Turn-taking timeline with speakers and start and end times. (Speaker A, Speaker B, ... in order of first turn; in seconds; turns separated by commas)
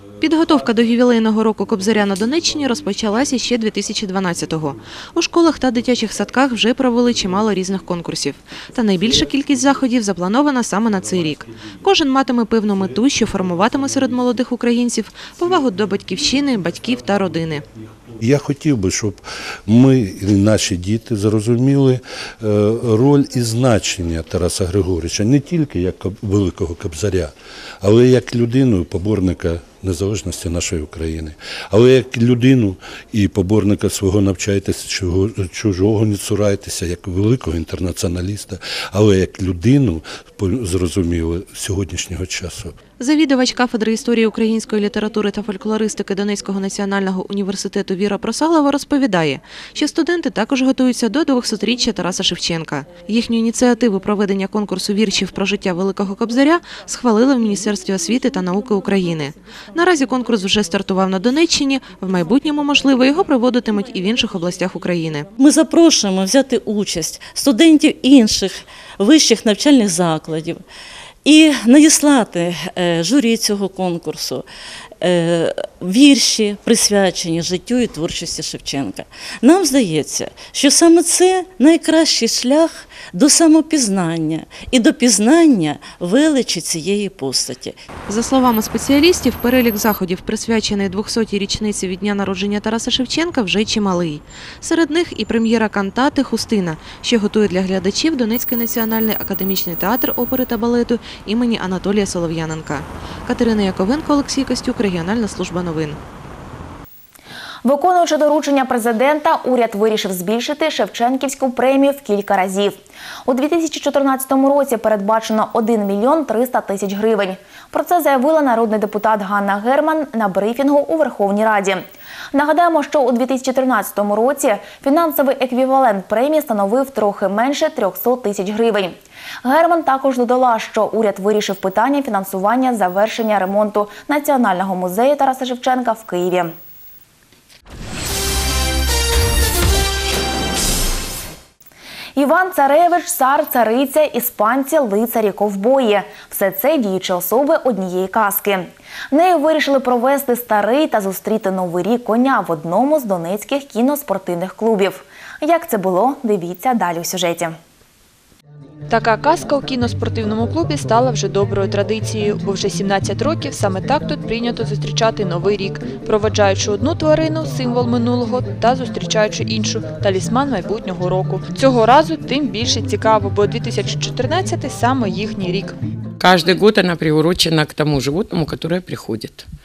Speaker A: 0.2-17.6, Speaker B: 18.2-42.7, Speaker A: 43.0-65.3, Speaker C: 65.4-70.6, Speaker C: 71.2-74.4, Speaker C: 75.0-87.8, Speaker A: 88.1-106.0, Speaker D: 107.6-136.5, Speaker D: 142.2-157.6, Speaker E: 158.9-175.8, Speaker F: 176.2-179.5